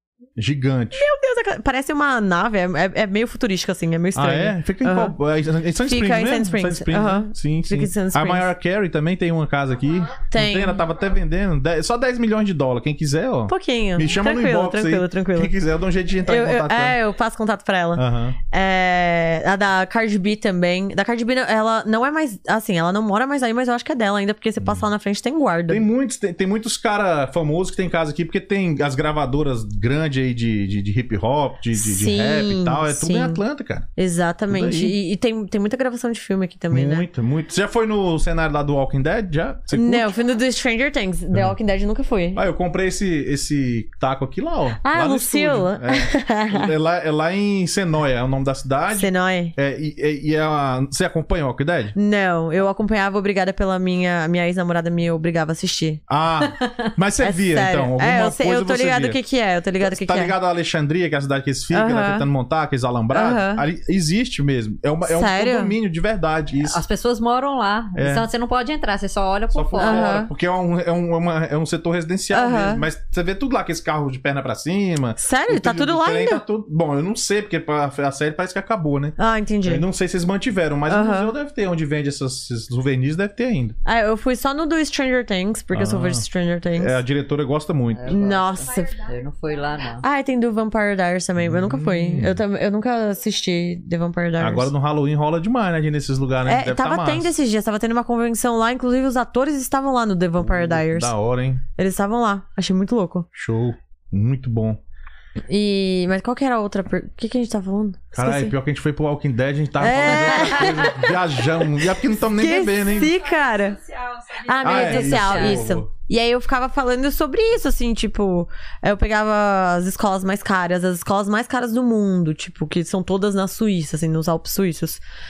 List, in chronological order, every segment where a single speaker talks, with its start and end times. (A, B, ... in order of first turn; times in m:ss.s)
0:00.4-0:01.0 A
0:00.9-0:05.2 B
0:04.1-0:17.0 A
0:05.8-0:08.5 B
0:09.8-0:10.2 C
0:10.3-0:10.8 B
0:13.5-0:15.5 B
0:16.2-0:25.8 B
0:17.9-0:18.4 A
0:24.6-0:24.8 A
0:25.7-0:33.9 A
0:31.7-0:33.4 B
0:34.0-0:37.1 B
0:34.5-0:35.0 A
0:36.7-0:40.1 A
0:39.7-0:42.4 B
0:42.3-0:52.0 A
0:44.8-0:46.7 B
0:48.9-0:49.5 B
0:51.9-0:56.0 B
0:56.1-0:59.2 A
0:57.2-1:00.3 B
0:59.8-1:06.8 A
1:01.7-1:02.3 B
1:03.1-1:03.6 B
1:05.0-1:05.7 B
1:06.6-1:10.2 D
1:07.9-1:08.3 A
1:09.5-1:23.8 A
1:09.8-1:10.3 B
1:12.3-1:12.8 B
1:15.2-1:16.4 B
1:19.2-1:19.8 B
1:20.9-1:21.3 B
1:23.8-1:27.0 B
1:25.7-1:26.2 A
1:26.8-1:28.3 A
1:27.9-1:30.0 D
1:28.1-1:29.0 B
1:28.3-1:30.0 C
1:30.0-1:34.7 B
1:31.4-1:32.4 A
1:34.4-1:37.3 A
1:36.4-1:41.1 B
1:40.4-1:41.6 A
1:41.8-1:43.3 B
1:43.3-1:44.8 A
1:45.5-1:48.6 B
1:48.1-1:53.1 A
1:49.8-1:51.3 B
1:50.0-1:50.8 D
1:52.2-1:53.8 B
1:52.7-1:55.1 C
1:54.4-2:05.0 B
1:54.6-1:55.9 A
1:54.7-1:55.6 D